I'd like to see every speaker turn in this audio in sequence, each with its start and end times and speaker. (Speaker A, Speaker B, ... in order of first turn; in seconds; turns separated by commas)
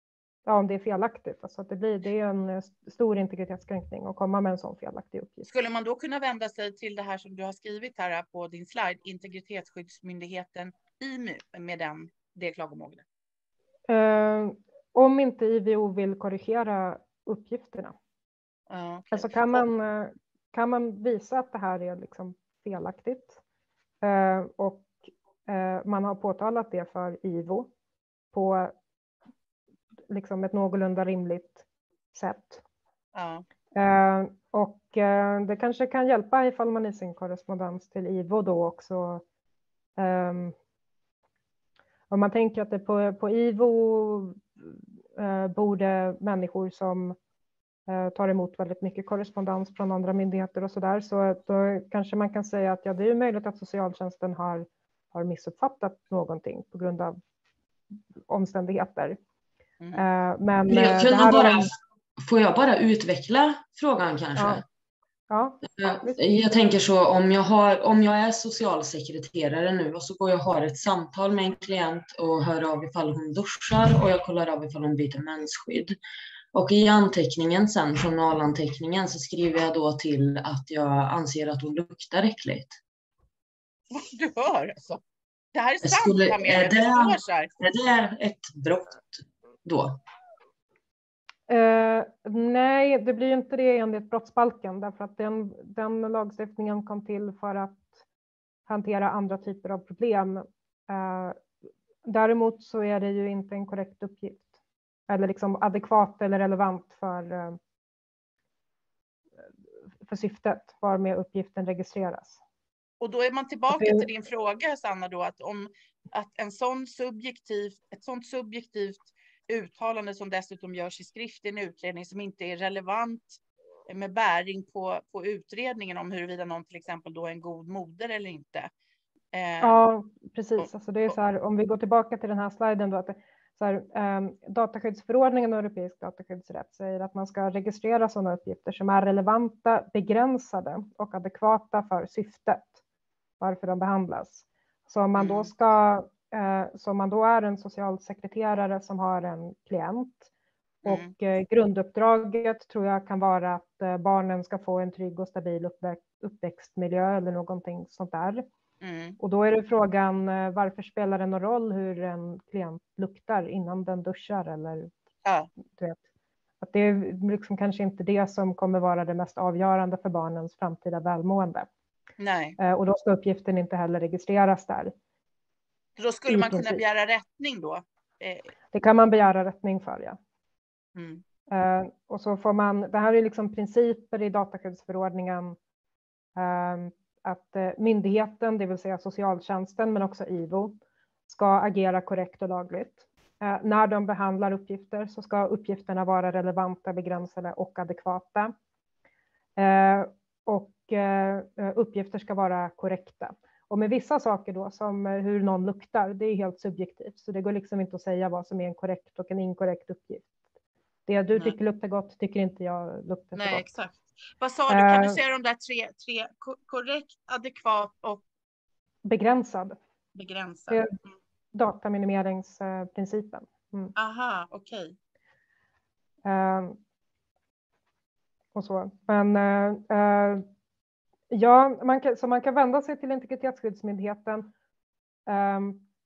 Speaker A: 0.5-5.5, Speaker B: 5.4-13.0, Speaker A: 13.9-17.9, Speaker B: 18.7-19.6, Speaker A: 19.1-23.4, Speaker A: 24.0-27.7, Speaker A: 28.3-28.7, Speaker A: 30.1-32.6, Speaker B: 33.1-33.4, Speaker A: 33.7-39.2, Speaker A: 40.0-40.5, Speaker A: 42.1-47.1, Speaker A: 47.9-57.2, Speaker A: 58.3-59.2, Speaker B: 59.8-60.0, Speaker A: 59.9-61.7, Speaker C: 60.7-64.6, Speaker A: 64.3-64.6, Speaker A: 65.3-66.2, Speaker C: 65.8-76.0, Speaker C: 76.5-82.8, Speaker B: 83.9-85.0, Speaker B: 85.5-87.5, Speaker C: 85.8-90.0, Speaker A: 91.5-98.0, Speaker A: 98.7-101.4, Speaker A: 102.0-104.4, Speaker A: 105.1-107.6, Speaker A: 110.0-112.4, Speaker B: 113.0-128.7, Speaker A: 113.7-114.1, Speaker B: 129.3-129.8, Speaker A: 129.6-142.8, Speaker B: 130.6-131.1, Speaker A: 143.4-150.3, Speaker B: 145.2-145.5, Speaker A: 150.8-158.4, Speaker B: 150.8-151.1, Speaker B: 158.8-159.2, Speaker A: 159.2-164.9, Speaker B: 165.2-165.5, Speaker A: 165.7-166.0, Speaker A: 166.6-171.7, Speaker B: 172.2-172.6, Speaker A: 172.6-174.9, Speaker B: 176.0-178.5, Speaker A: 176.3-176.8, Speaker A: 178.7-180.2, Speaker B: 180.9-181.2, Speaker A: 181.5-185.6, Speaker A: 186.3-190.8, Speaker A: 191.3-198.5, Speaker A: 199.6-210.3, Speaker A: 211.1-213.6, Speaker B: 213.3-218.2, Speaker A: 214.7-215.2, Speaker A: 219.0-219.8, Speaker B: 220.1-220.8, Speaker A: 221.5-223.9, Speaker B: 223.9-224.9, Speaker A: 226.2-226.8, Speaker A: 228.5-230.4, Speaker A: 231.3-234.5, Speaker A: 235.3-235.8